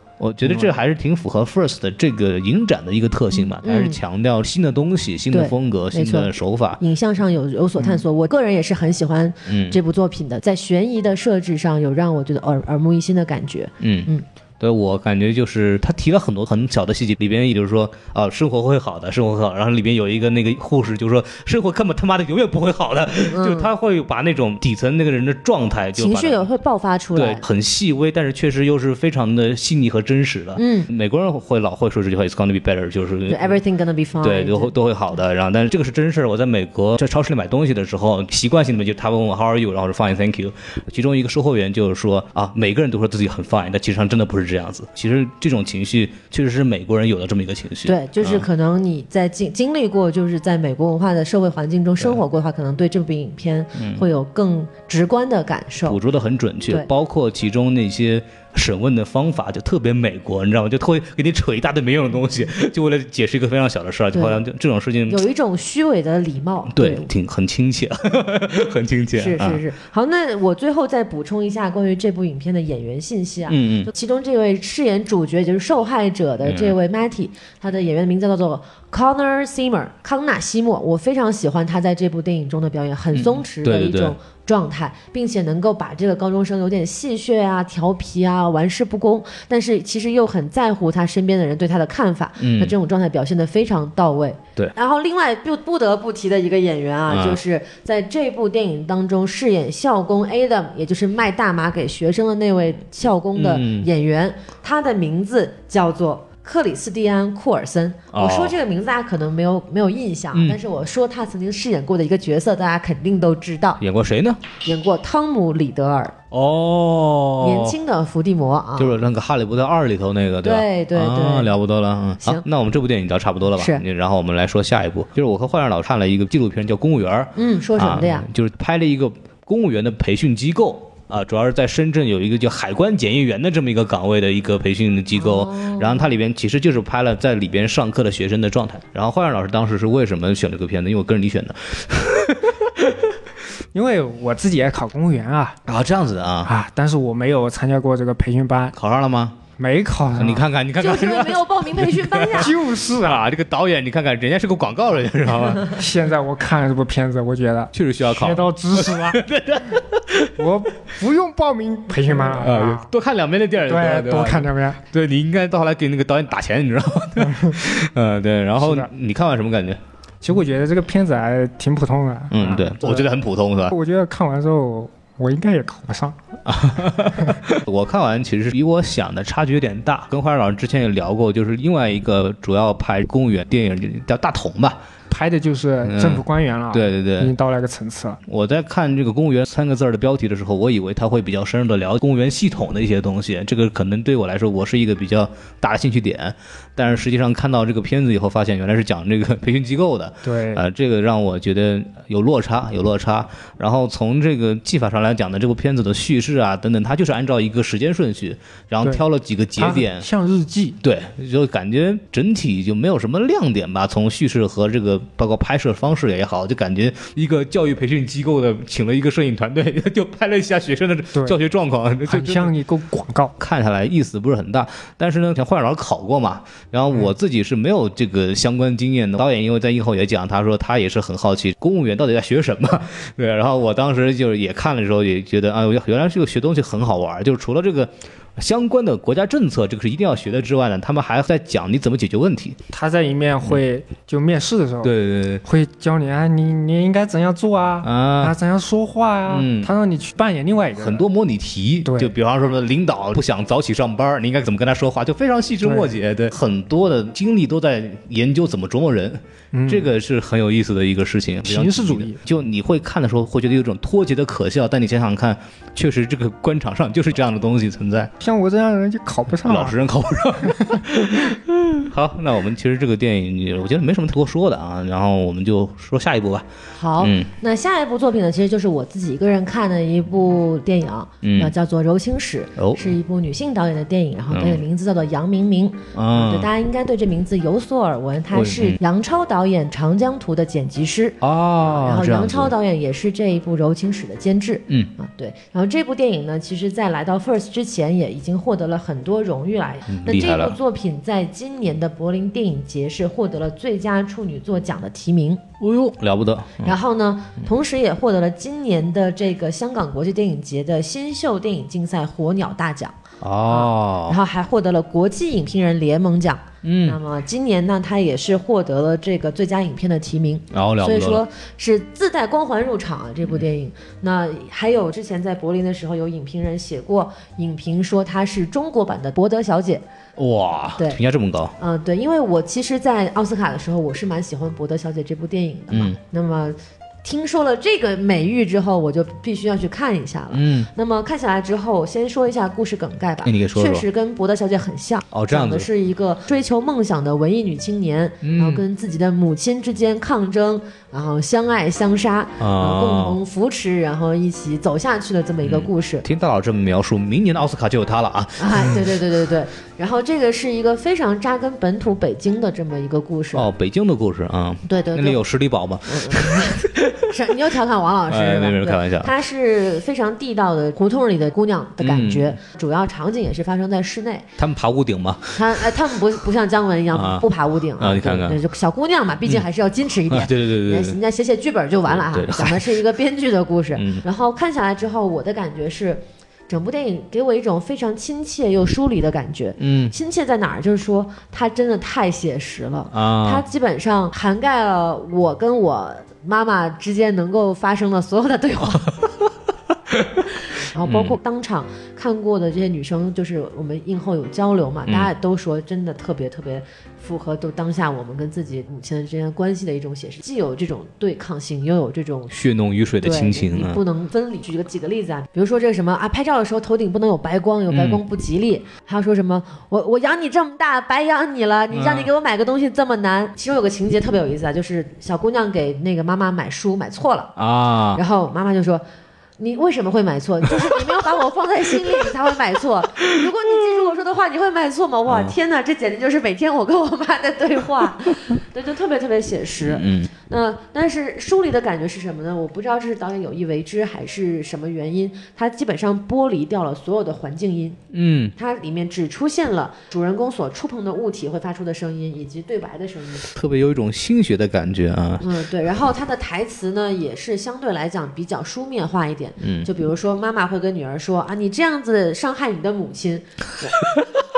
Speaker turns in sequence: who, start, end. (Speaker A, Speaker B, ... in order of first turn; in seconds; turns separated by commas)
Speaker A: 0.2-6.8, Speaker B: 0.4-0.7, Speaker C: 3.4-4.0, Speaker C: 5.3-14.2, Speaker A: 9.5-9.8, Speaker A: 13.8-14.1, Speaker A: 14.6-26.5, Speaker C: 23.3-23.7, Speaker C: 26.0-27.4, Speaker A: 27.1-33.6, Speaker C: 30.6-30.9, Speaker C: 33.3-34.7, Speaker A: 34.2-48.5, Speaker C: 47.9-56.0, Speaker A: 53.7-54.0, Speaker A: 55.8-65.2, Speaker C: 64.1-64.4, Speaker C: 65.1-67.1, Speaker A: 66.7-69.6, Speaker C: 69.1-113.8, Speaker A: 73.5-73.9, Speaker A: 76.4-76.7, Speaker A: 83.1-84.1, Speaker A: 92.4-92.7, Speaker A: 97.1-97.4, Speaker A: 103.3-103.9, Speaker A: 108.1-108.5, Speaker A: 110.3-110.6, Speaker A: 113.8-114.4, Speaker C: 114.6-116.2, Speaker A: 116.3-117.8, Speaker C: 117.4-119.0, Speaker A: 118.8-143.1, Speaker C: 120.4-121.5, Speaker C: 123.5-123.8, Speaker C: 127.3-128.3, Speaker C: 135.1-136.1, Speaker B: 143.7-145.6, Speaker A: 145.7-146.5, Speaker B: 146.4-148.7, Speaker A: 148.7-149.4, Speaker B: 149.6-150.4, Speaker A: 150.2-155.8, Speaker C: 150.8-152.5, Speaker B: 152.3-153.2, Speaker B: 155.7-159.2, Speaker A: 157.7-160.4, Speaker B: 160.3-162.9, Speaker A: 162.1-169.8, Speaker B: 163.6-164.8, Speaker B: 167.2-167.5, Speaker B: 168.6-168.9, Speaker B: 170.2-173.1, Speaker A: 172.3-173.7, Speaker B: 173.7-176.2, Speaker A: 176.4-184.8, Speaker B: 185.1-188.2, Speaker A: 185.8-187.3, Speaker A: 188.3-210.1, Speaker B: 200.2-200.6, Speaker B: 209.6-210.8, Speaker A: 210.8-222.5, Speaker B: 222.1-223.3, Speaker A: 223.4-242.6, Speaker B: 242.7-251.0, Speaker A: 244.8-245.4, Speaker A: 247.8-248.3, Speaker A: 249.3-249.7, Speaker A: 250.8-268.1, Speaker B: 251.8-252.1, Speaker B: 255.6-256.0, Speaker B: 259.5-259.9, Speaker B: 261.4-262.2, Speaker B: 268.2-269.8, Speaker A: 269.4-276.5, Speaker C: 276.7-305.4, Speaker A: 277.0-277.3, Speaker A: 281.2-281.5, Speaker A: 282.6-283.0, Speaker A: 284.3-284.6, Speaker A: 285.9-286.5, Speaker A: 288.3-288.8, Speaker A: 291.2-292.5, Speaker A: 299.9-300.6, Speaker A: 305.6-306.8, Speaker C: 306.6-329.8, Speaker A: 313.2-314.2, Speaker A: 316.6-317.0, Speaker A: 320.5-321.2, Speaker A: 330.1-331.5, Speaker C: 331.6-356.0, Speaker A: 335.7-336.0, Speaker A: 340.3-340.7, Speaker A: 343.2-343.8, Speaker A: 345.1-345.7, Speaker A: 348.2-348.6, Speaker A: 352.4-353.2, Speaker A: 355.4-358.9, Speaker C: 358.4-363.5, Speaker A: 363.3-367.1, Speaker C: 364.6-365.2, Speaker C: 365.9-374.3, Speaker A: 368.1-369.1, Speaker A: 371.8-372.4, Speaker A: 374.4-375.6, Speaker C: 375.3-399.0, Speaker A: 376.9-378.4, Speaker A: 380.1-381.0, Speaker A: 381.9-382.8, Speaker A: 383.7-384.0, Speaker A: 389.6-389.9, Speaker A: 392.9-393.4, Speaker C: 400.5-412.3, Speaker A: 400.8-401.2, Speaker A: 412.3-413.8, Speaker C: 413.0-427.4, Speaker A: 417.7-418.0, Speaker A: 421.7-422.1, Speaker A: 427.4-428.0, Speaker C: 427.9-428.8, Speaker C: 429.4-447.8, Speaker A: 430.6-430.9, Speaker A: 435.1-435.3, Speaker A: 439.6-440.1, Speaker A: 447.9-448.3, Speaker C: 448.4-453.3, Speaker A: 453.3-455.4, Speaker C: 455.2-463.9, Speaker A: 459.4-459.7, Speaker A: 463.8-464.2